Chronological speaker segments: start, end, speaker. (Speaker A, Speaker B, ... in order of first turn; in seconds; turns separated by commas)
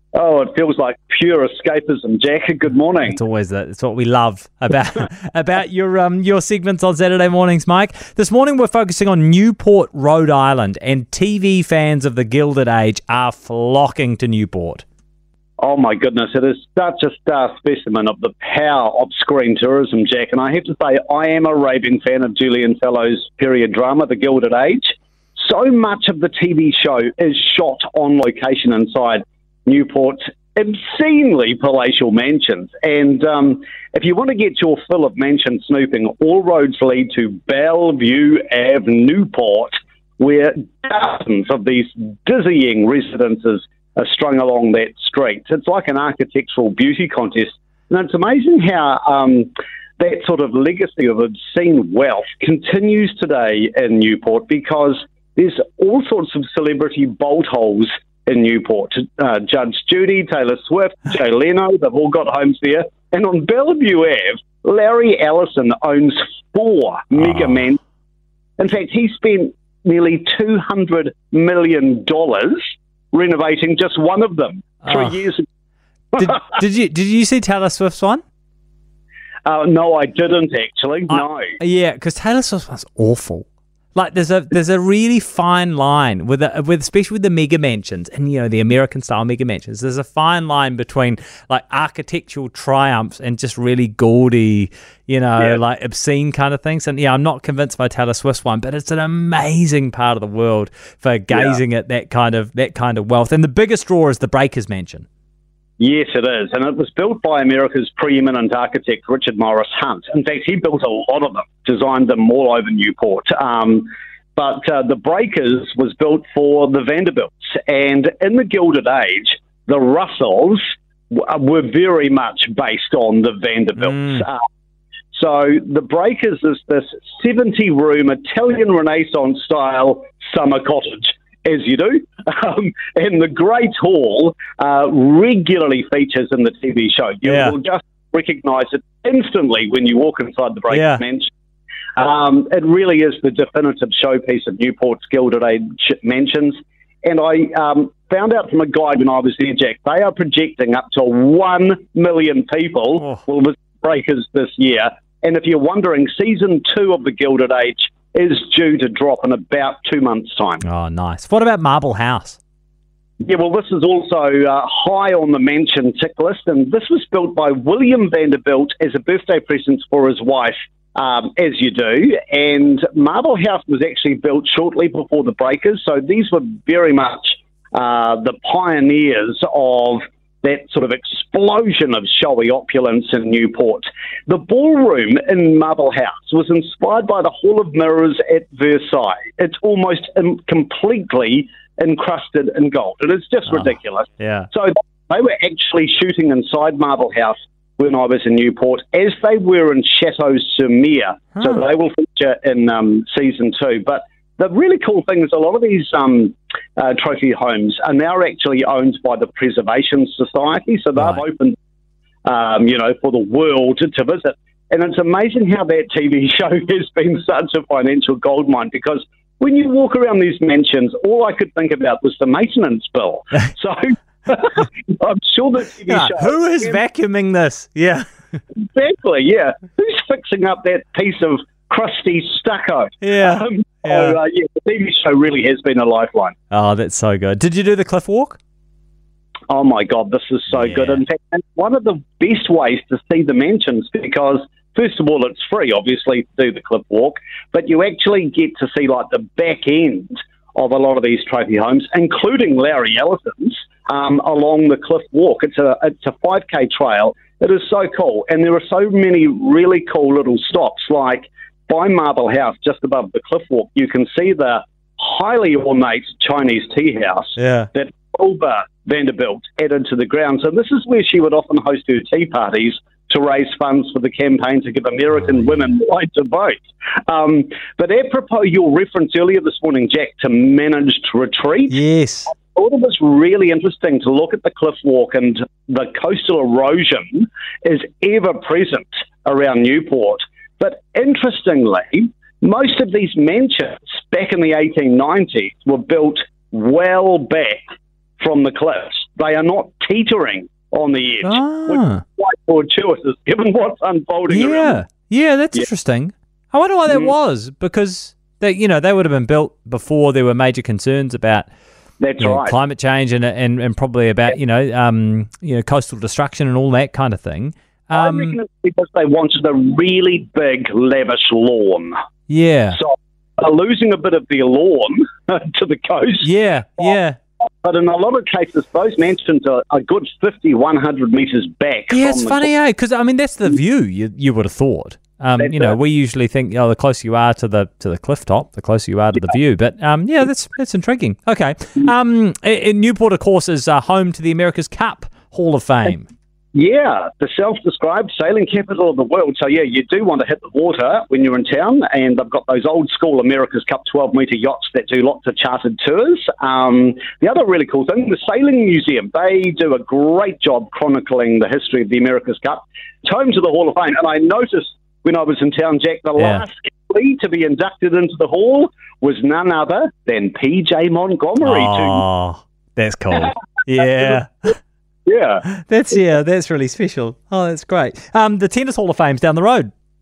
Speaker A: 0.1-3.2, Speaker B: 3.0-14.8, Speaker A: 15.6-67.8, Speaker A: 68.6-75.5, Speaker B: 74.8-75.2, Speaker B: 76.2-78.2, Speaker A: 79.5-81.6, Speaker B: 81.1-105.1, Speaker A: 101.3-101.6, Speaker A: 105.8-124.4, Speaker A: 125.1-141.3, Speaker B: 137.2-137.5, Speaker B: 140.7-141.0, Speaker A: 141.9-160.6, Speaker B: 160.6-162.4, Speaker A: 163.2-211.6, Speaker B: 194.2-194.5, Speaker A: 212.2-226.8, Speaker B: 225.9-228.1, Speaker A: 228.6-236.3, Speaker B: 233.0-234.2, Speaker B: 236.5-238.4, Speaker A: 239.5-297.6, Speaker B: 240.5-241.0, Speaker B: 267.4-267.7, Speaker B: 281.7-282.3, Speaker A: 298.2-304.8, Speaker B: 301.2-302.0, Speaker B: 304.3-311.5, Speaker A: 312.0-312.5, Speaker B: 312.2-318.4, Speaker A: 317.9-321.9, Speaker B: 322.3-322.8, Speaker A: 322.7-326.3, Speaker B: 326.2-327.2, Speaker A: 327.6-332.5, Speaker B: 331.9-346.1, Speaker A: 335.4-335.8, Speaker A: 346.5-372.0, Speaker B: 366.2-366.4, Speaker B: 371.4-374.6, Speaker A: 375.1-375.4, Speaker B: 375.4-379.7